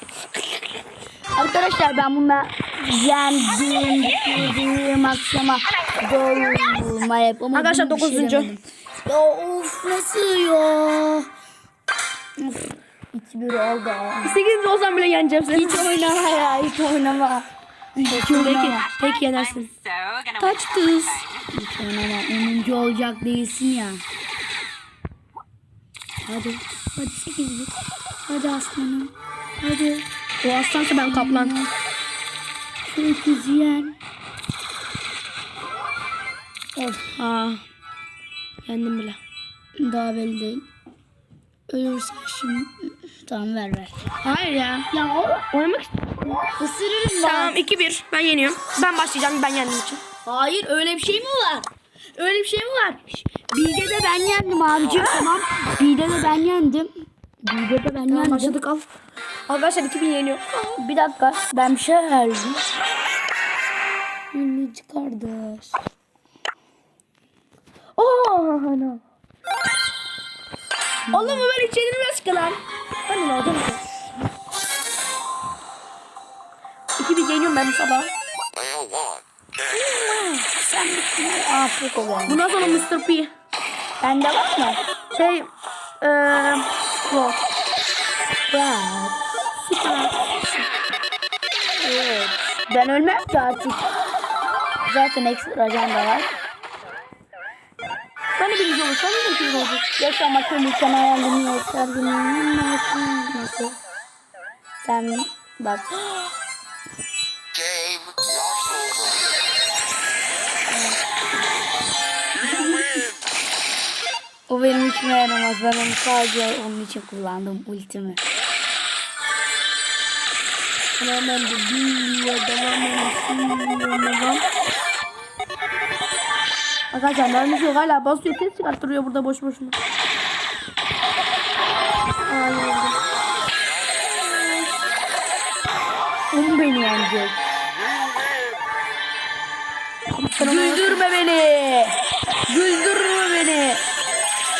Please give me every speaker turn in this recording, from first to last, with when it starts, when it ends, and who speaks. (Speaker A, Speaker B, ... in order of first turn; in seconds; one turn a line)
Speaker A: 1.3-11.3
Speaker B: 7.5-8.5
Speaker A: 12.4-14.3
Speaker B: 14.2-15.9
Speaker A: 15.5-18.8
Speaker B: 18.1-19.7
Speaker C: 18.8-21.4
Speaker B: 20.4-21.2
Speaker A: 21.5-24.0
Speaker A: 26.2-27.7
Speaker A: 28.3-30.1
Speaker B: 30.4-31.5
Speaker A: 31.1-31.7
Speaker A: 32.9-34.0
Speaker A: 36.8-37.2
Speaker B: 37.2-37.6
Speaker B: 38.6-39.2
Speaker A: 39.8-40.7
Speaker A: 41.7-43.9
Speaker B: 44.2-44.9
Speaker A: 44.9-45.4
Speaker B: 45.5-46.4
Speaker A: 46.6-47.5
Speaker B: 47.2-50.0
Speaker A: 50.2-58.6
Speaker B: 58.1-58.9
Speaker B: 59.5-60.8
Speaker A: 60.8-62.6
Speaker B: 64.3-65.7
Speaker B: 68.0-69.0
Speaker A: 71.1-71.5
Speaker B: 71.1-73.9
Speaker B: 77.0-78.1
Speaker B: 79.7-80.5
Speaker A: 80.5-82.4
Speaker B: 82.3-83.3
Speaker A: 84.0-84.8
Speaker B: 85.1-85.5
Speaker B: 86.0-87.4
Speaker A: 88.5-89.2
Speaker B: 89.6-90.6
Speaker A: 91.8-93.9
Speaker A: 94.8-96.3
Speaker B: 98.3-99.8
Speaker A: 100.0-103.8
Speaker A: 104.8-105.9
Speaker B: 110.7-111.0
Speaker A: 112.4-112.9
Speaker A: 114.5-118.2
Speaker B: 121.0-124.4
Speaker B: 126.9-129.8
Speaker B: 132.2-133.0
Speaker B: 134.1-134.7
Speaker A: 136.3-137.4
Speaker B: 140.1-141.0
Speaker A: 140.4-142.0
Speaker A: 142.5-143.8